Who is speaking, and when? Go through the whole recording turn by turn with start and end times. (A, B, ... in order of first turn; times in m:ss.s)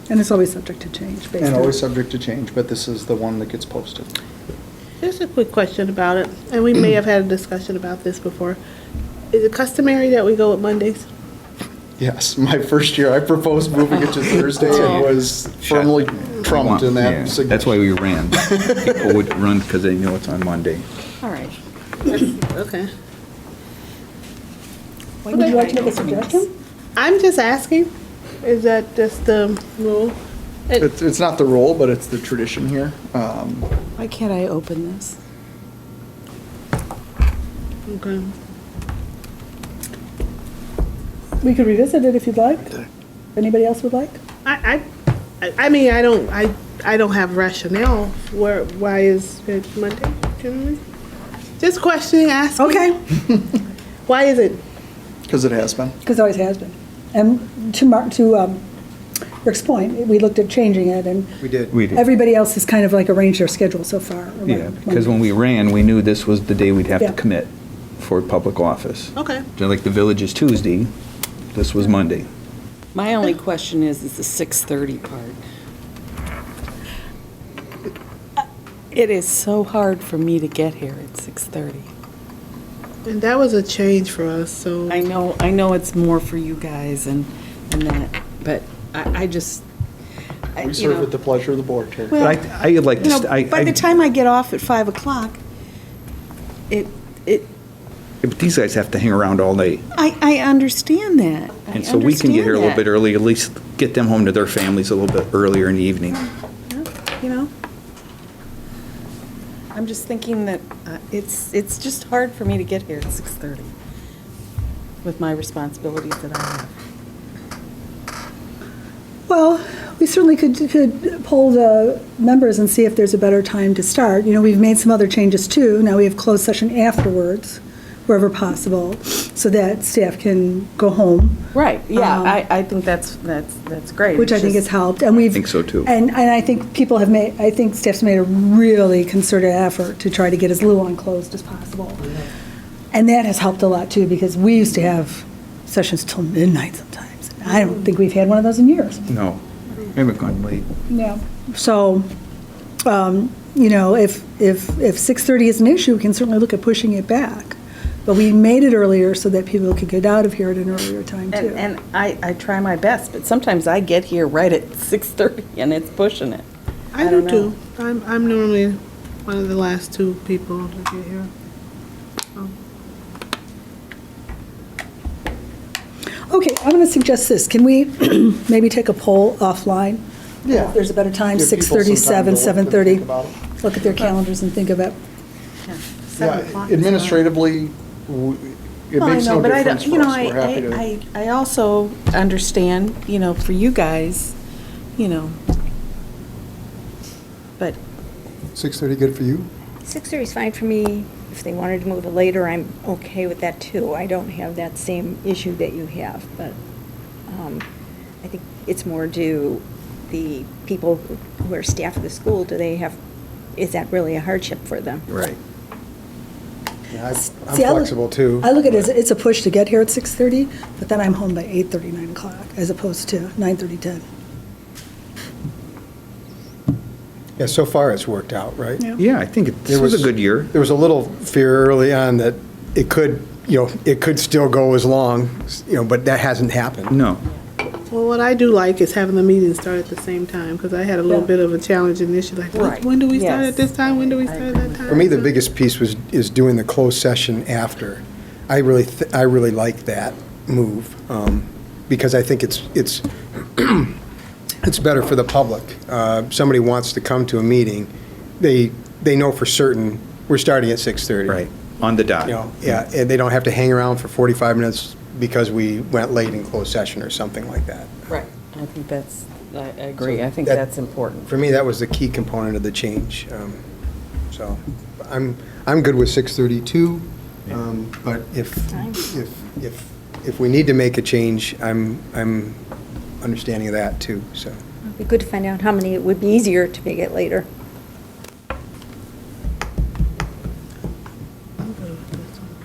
0:00.1-0:01.8 A
0:01.4-0:04.1 B
0:05.0-0:08.6 C
0:09.3-0:11.1 C
0:12.0-0:19.2 B
0:14.2-0:15.1 D
0:15.6-0:20.9 E
0:21.2-0:21.6 D
0:22.1-0:22.9 C
0:25.3-0:26.5 A
0:25.3-0:26.3 D
0:25.3-0:25.7 C
0:27.0-0:27.9 C
0:28.4-0:30.2 C
0:30.8-0:33.7 B
0:34.0-0:35.2 D
0:37.9-0:38.3 C
0:41.4-0:44.2 A
0:44.4-0:44.8 C
0:45.4-0:50.8 C
0:51.6-0:53.0 C
0:52.6-0:53.0 A
0:54.1-0:54.6 C
0:55.3-0:56.0 B
0:56.0-0:58.6 A
0:59.4-1:01.4 A
1:01.4-1:01.8 F
1:01.7-1:02.0 E
1:01.9-1:05.2 A
1:04.5-1:10.9 E
1:09.2-1:09.5 C
1:11.5-1:12.3 E
1:12.9-1:15.4 D
1:18.9-1:21.9 D
1:23.0-1:25.1 C
1:24.9-1:29.6 D
1:30.6-1:31.1 D
1:30.6-1:32.2 B
1:32.1-1:32.4 D
1:32.2-1:33.9 E
1:33.0-1:35.4 D
1:36.7-1:37.5 D
1:38.2-1:39.8 E
1:39.9-1:42.8 D
1:41.7-1:46.3 E
1:46.7-1:47.5 D
1:49.7-1:53.7 D
1:55.0-1:56.7 D
1:59.3-2:12.4 A
2:11.5-2:14.7 D
2:14.2-2:22.1 A
2:15.3-2:15.9 E
2:22.9-2:29.0 A
2:29.1-2:30.7 E
2:30.9-2:32.1 A
2:32.8-2:41.6 A
2:41.3-2:47.6 D
2:47.0-2:51.3 C
2:56.3-3:05.0 A
3:00.4-3:00.8 B
3:01.3-3:03.4 B
3:05.6-3:07.4 D
3:06.2-3:10.9 B
3:09.0-3:14.4 D
3:15.0-3:15.4 D
3:18.5-3:19.5 F
3:19.8-3:26.6 G
3:27.3-3:27.6 G
3:28.2-3:33.0 G
3:33.6-3:35.1 G
3:35.1-3:35.4 E
3:36.9-3:38.6 F
3:37.3-3:44.0 A
3:47.4-3:48.9 F
3:49.0-3:50.5 E
3:49.7-3:57.0 F
3:56.9-3:57.2 E
3:57.9-4:05.3 C
4:02.5-4:05.2 D
4:04.9-4:14.0 F
4:14.6-4:21.5 F
4:21.3-4:22.4 E
4:22.2-4:27.9 F
4:28.1-4:31.3 D
4:30.0-4:30.6 F
4:31.2-4:33.6 F
4:34.3-4:42.6 F
4:38.7-4:39.0 G
4:43.2-4:44.6 F
4:44.9-4:47.5 G
4:51.6-4:52.4 C